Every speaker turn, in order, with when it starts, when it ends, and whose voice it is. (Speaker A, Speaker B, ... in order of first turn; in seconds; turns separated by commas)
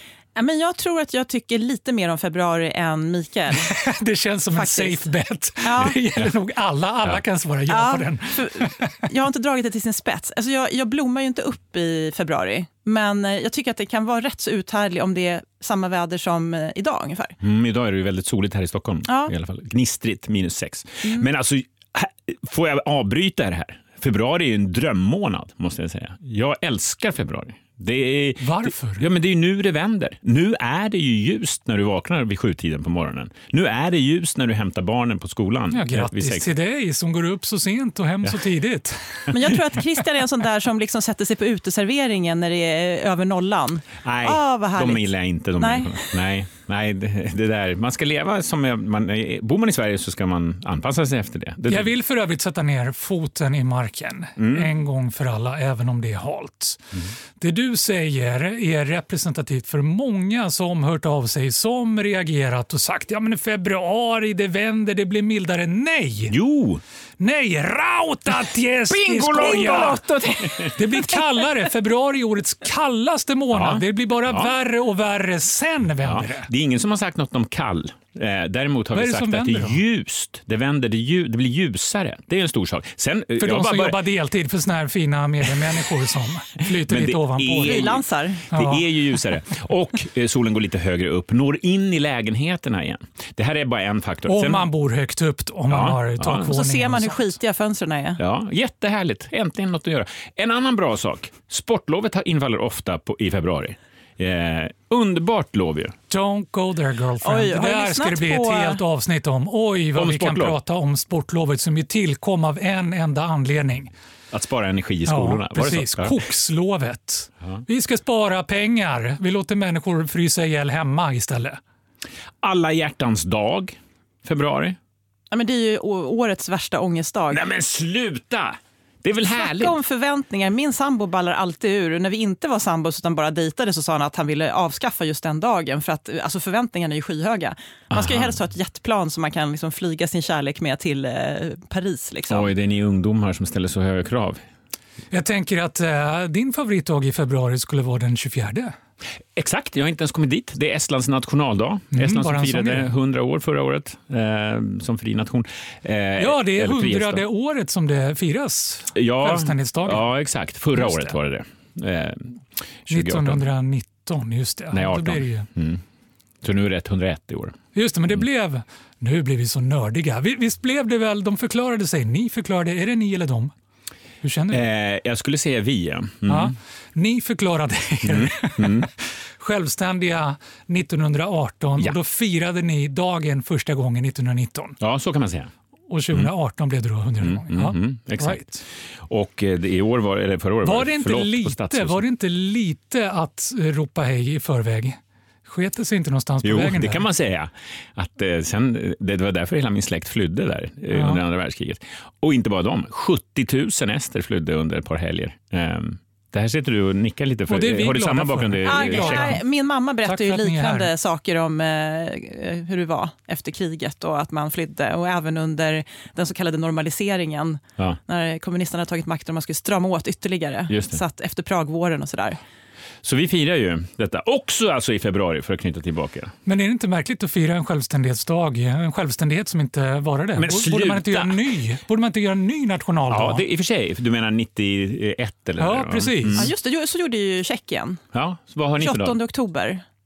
Speaker A: 0.3-3.7, Speaker B: 3.6-8.9, Speaker A: 4.5-5.1, Speaker A: 5.6-6.0, Speaker A: 7.7-17.4, Speaker C: 17.4-36.5, Speaker A: 19.1-19.3, Speaker B: 28.4-29.1, Speaker B: 35.7-39.3, Speaker A: 39.3-46.0, Speaker C: 44.0-51.9, Speaker B: 51.7-56.8, Speaker C: 54.4-54.7, Speaker B: 57.4-66.3, Speaker C: 66.3-66.8, Speaker B: 67.2-76.5, Speaker C: 68.9-71.0, Speaker C: 73.5-74.5, Speaker C: 76.0-84.0, Speaker B: 78.9-79.8, Speaker B: 83.4-87.9, Speaker C: 86.6-94.7, Speaker A: 87.6-88.4, Speaker B: 88.5-88.8, Speaker B: 94.2-97.3, Speaker C: 95.7-96.6, Speaker A: 96.5-98.2, Speaker C: 98.2-106.0, Speaker B: 106.1-113.9, Speaker A: 107.2-108.8, Speaker C: 110.0-110.6, Speaker C: 114.3-116.2, Speaker B: 115.0-121.6, Speaker C: 122.4-124.8, Speaker A: 125.3-127.4, Speaker C: 127.3-129.8, Speaker A: 129.3-142.5, Speaker C: 137.9-138.3, Speaker C: 142.3-144.4, Speaker B: 145.1-148.7, Speaker C: 149.3-157.2, Speaker B: 151.9-152.9, Speaker B: 156.2-160.1, Speaker C: 158.9-163.4, Speaker B: 160.7-161.2, Speaker B: 162.9-165.5, Speaker C: 164.7-165.8, Speaker C: 166.4-167.6, Speaker B: 167.7-173.5, Speaker B: 174.2-174.6, Speaker C: 174.5-176.5, Speaker B: 176.3-184.8, Speaker C: 178.0-178.9, Speaker C: 184.8-185.5, Speaker B: 185.9-188.6, Speaker C: 187.2-188.4, Speaker C: 189.1-192.0, Speaker B: 190.6-197.1, Speaker C: 196.4-209.4, Speaker B: 200.9-201.2, Speaker B: 207.5-209.4, Speaker A: 208.7-222.4, Speaker B: 210.0-210.9, Speaker C: 220.7-221.0, Speaker C: 223.0-226.3, Speaker B: 226.4-233.4, Speaker C: 230.4-231.4, Speaker C: 233.1-236.5, Speaker B: 235.6-236.5, Speaker A: 236.3-238.0, Speaker C: 238.1-239.2, Speaker A: 238.8-239.8